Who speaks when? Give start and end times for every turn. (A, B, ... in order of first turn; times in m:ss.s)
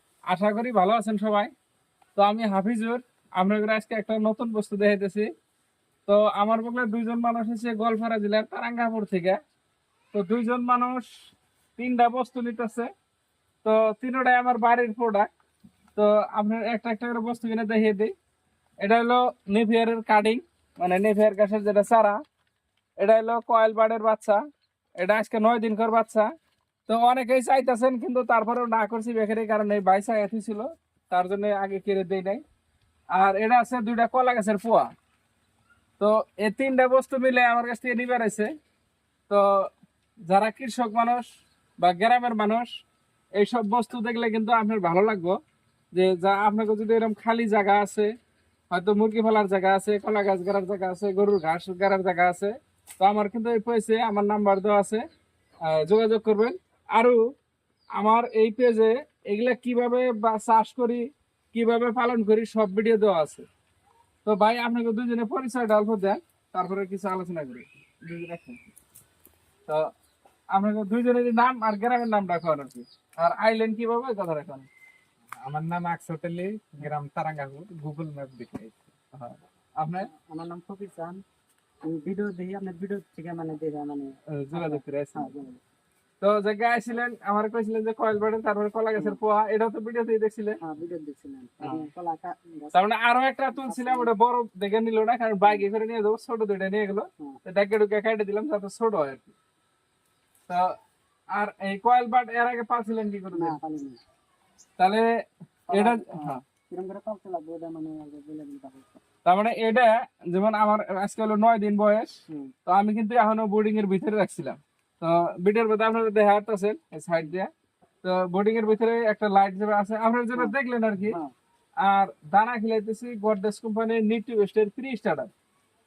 0:00.3-0:01.5 A
0:02.2-0:05.3 A
0:06.1-0:09.4 A
0:10.1-0:11.0 A
0:11.8-0:12.9 A
0:13.6-0:15.3 A
0:16.0-0:18.1 A
0:18.8-0:22.2 A
0:23.0-0:24.4 A
0:25.0-0:26.3 A
0:26.9-0:32.4 A
0:33.1-0:34.9 A
0:36.0-0:38.5 A
0:39.3-0:39.7 A
0:40.3-0:41.2 A
0:41.8-0:42.7 A
0:43.4-0:45.4 A
0:45.9-0:48.1 A
0:48.7-0:55.0 A
0:55.6-0:57.2 A
0:58.0-1:03.5 A
1:04.2-1:08.7 A
1:10.5-1:14.7 A
1:15.4-1:18.7 B
1:19.1-1:20.1 A
1:20.0-1:21.2 C
1:21.8-1:25.6 C
1:24.3-1:25.3 A
1:26.2-1:30.6 A
1:28.9-1:29.2 C
1:30.6-1:32.9 C
1:31.6-1:31.8 A
1:32.7-1:39.4 A
1:33.5-1:34.1 C
1:40.5-1:40.7 A
1:41.3-1:43.6 A
1:43.3-1:44.0 C
1:44.8-1:45.1 A
1:45.7-1:49.0 C
1:45.7-1:46.4 A
1:49.2-1:57.5 A
1:52.3-1:52.5 C
1:58.0-2:01.2 A
2:00.3-2:01.3 C
2:01.8-2:05.3 A